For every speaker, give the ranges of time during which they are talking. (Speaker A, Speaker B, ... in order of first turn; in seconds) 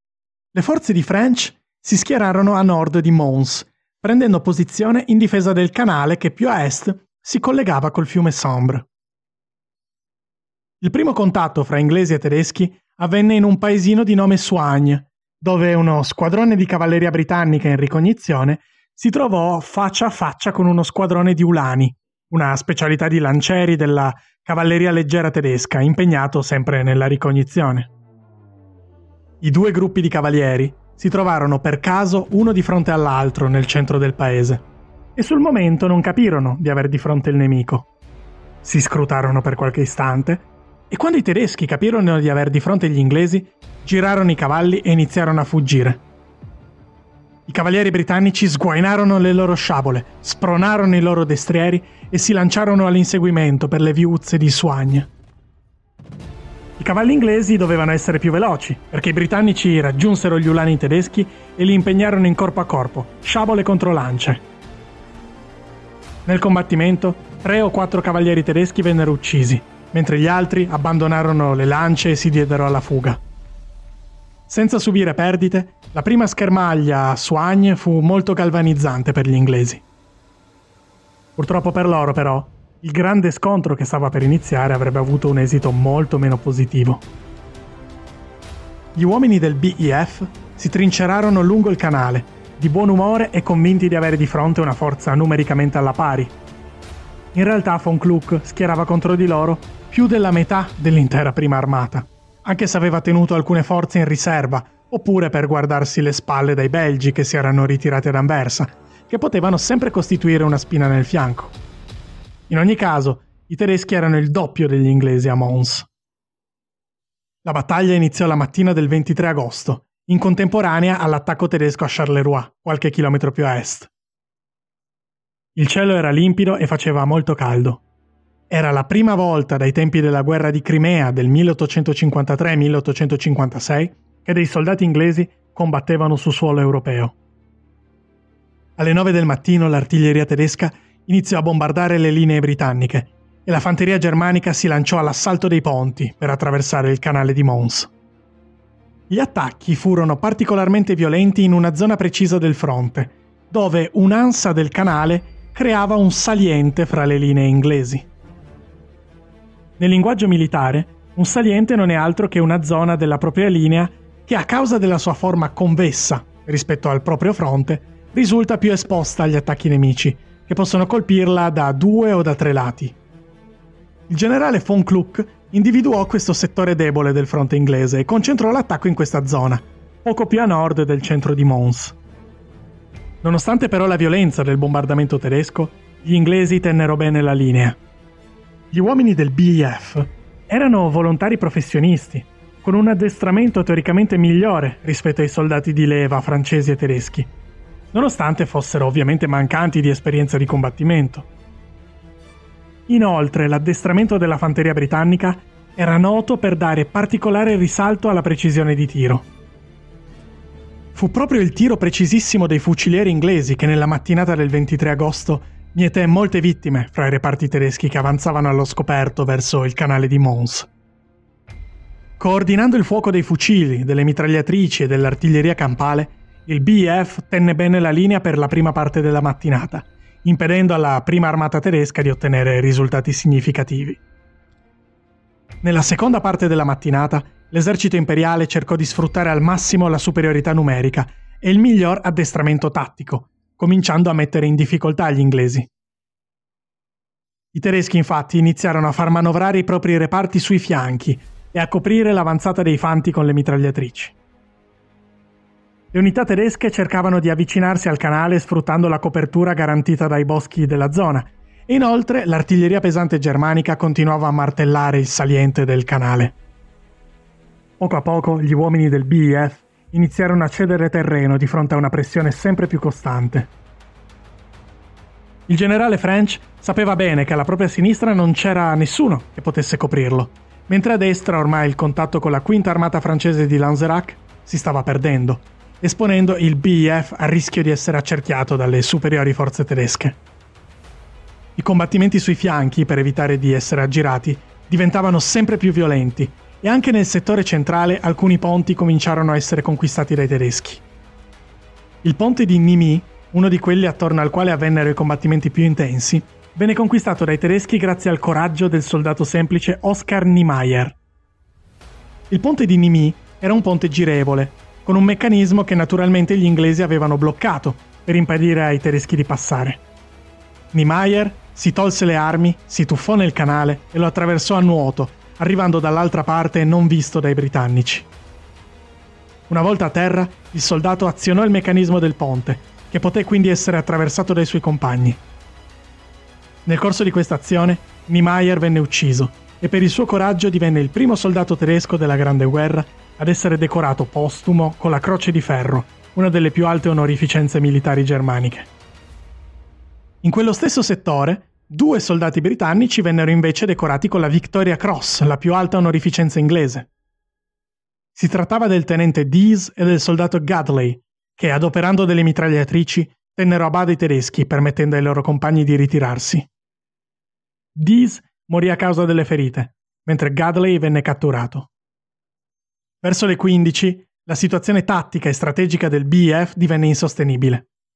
Speaker A: 0.5-8.9, 10.8-27.9, 29.4-34.6, 35.1-37.9, 38.6-46.0, 47.5-55.1, 56.8-64.4, 66.2-73.2, 74.5-79.8, 81.4-87.0, 88.9-96.3, 97.3-111.6, 112.5-115.9, 117.4-123.9, 125.5-127.8, 128.5-137.2, 138.8-147.9, 149.1-158.1, 159.8-172.9, 174.1-181.9, 183.2-187.8, 188.7-197.3, 197.9-201.3, 202.9-209.3, 210.9-220.7, 222.2-234.0, 235.6-245.7, 247.5-254.2, 255.9-266.4, 267.8-273.5, 275.5-290.2, 291.6-300.8, 302.0-311.0, 312.3-319.8, 320.7-328.1, 329.5-335.2, 336.6-348.7, 350.2-356.9, 358.1-366.5, 367.7-371.7, 373.0-377.7